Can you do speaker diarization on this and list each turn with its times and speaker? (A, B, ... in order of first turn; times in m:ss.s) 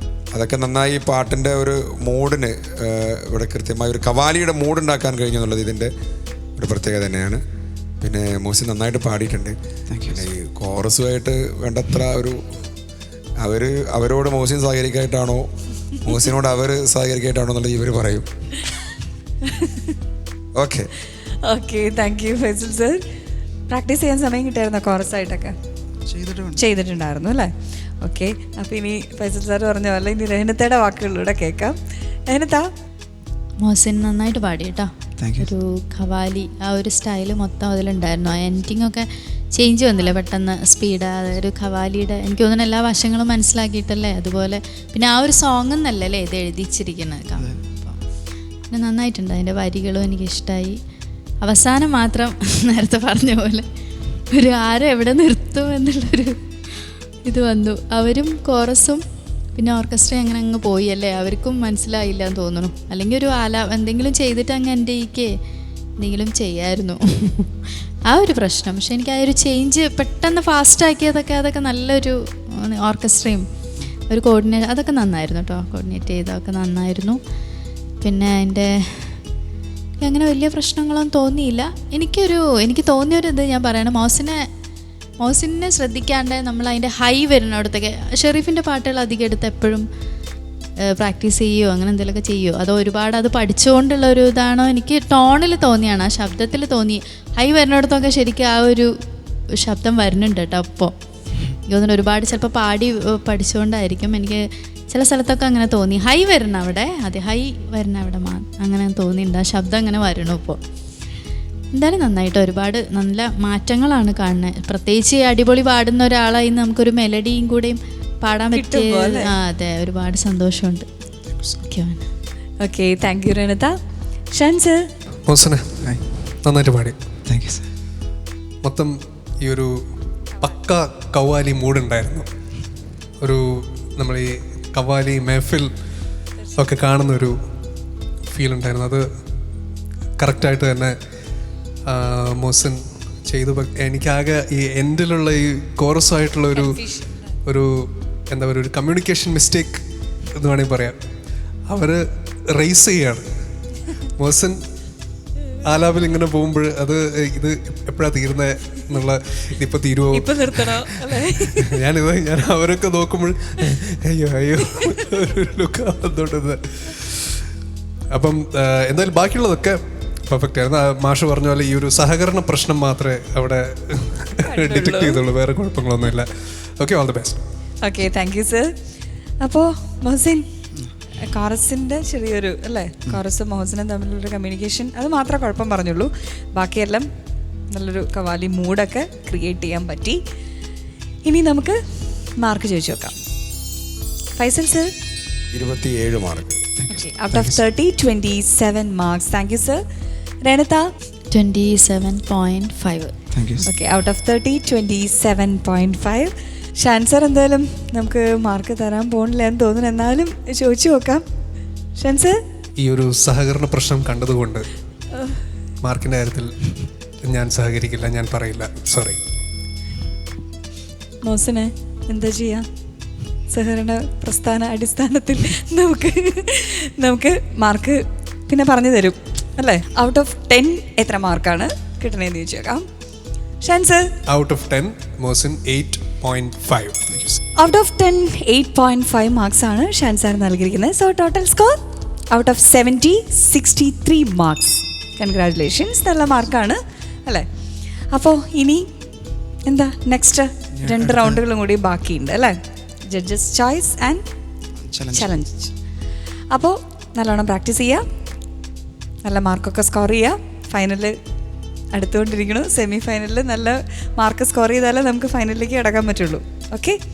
0:00.3-0:05.9 A
0:06.6-0:07.4 A
0:08.0-0:09.6 A
0:09.9-0:10.2 B
0:10.1-0:12.4 A
0:13.4-0:15.5 A
0:16.0-0:18.3 A
0:19.4-0:19.9 C
0:20.6-0:20.9 A
0:21.4-0:23.0 C
0:23.7-0:25.6 C
0:26.0-0:26.6 B
0:26.6-0:31.8 C
0:32.3-0:32.7 C
0:33.6-0:48.0 D
0:35.2-0:35.5 B
0:48.7-0:50.8 D
0:51.4-0:53.7 D
0:54.3-0:56.4 D
0:57.3-0:59.0 D
0:59.6-1:05.3 D
1:06.0-1:13.4 D
1:14.1-1:17.2 D
1:18.0-1:19.2 D
1:20.0-1:24.4 D
1:25.2-1:29.8 D
1:30.8-1:38.9 D
1:39.5-1:40.9 D
1:41.7-1:50.6 D
1:51.7-2:00.9 D
1:58.5-1:59.3 C
2:01.6-2:02.1 D
2:02.6-2:03.8 C
2:04.3-2:04.9 C
2:05.3-2:05.9 E
2:06.4-2:07.0 E
2:07.2-2:07.7 B
2:08.6-2:09.7 E
2:10.4-2:12.3 E
2:14.0-2:15.7 E
2:16.6-2:17.4 E
2:18.3-2:19.0 E
2:20.2-2:20.9 E
2:21.9-2:26.8 E
2:26.6-2:27.1 C
2:27.4-2:29.8 E
2:30.4-2:31.0 E
2:31.7-2:33.3 E
2:34.2-2:34.6 E
2:35.6-2:47.4 E
2:40.1-2:41.7 C
2:48.1-2:57.4 E
2:54.5-2:55.2 C
2:57.8-2:58.7 C
2:59.4-3:00.4 C
3:01.2-3:07.1 C
3:07.7-3:10.2 C
3:11.2-3:13.2 C
3:14.4-3:14.9 C
3:15.5-3:16.6 A
3:16.8-3:17.6 B
3:16.9-3:19.8 C
3:20.4-3:20.9 C
3:21.3-3:23.1 D
3:23.3-3:23.7 B
3:23.6-3:31.2 C
3:32.0-3:32.4 C
3:32.8-3:34.7 E
3:35.8-3:36.7 E
3:37.2-3:39.2 E
3:41.2-3:42.7 C
3:43.5-3:52.8 C
3:53.6-3:54.1 C
3:54.3-3:57.4 E
3:57.6-4:01.8 C
4:02.3-4:07.5 C
4:08.1-4:08.9 C
4:09.7-4:14.2 C
4:10.8-4:11.4 B
4:14.8-4:15.4 B
4:15.1-4:15.7 C
4:16.5-4:18.0 C
4:19.2-4:21.2 C
4:21.9-4:27.0 C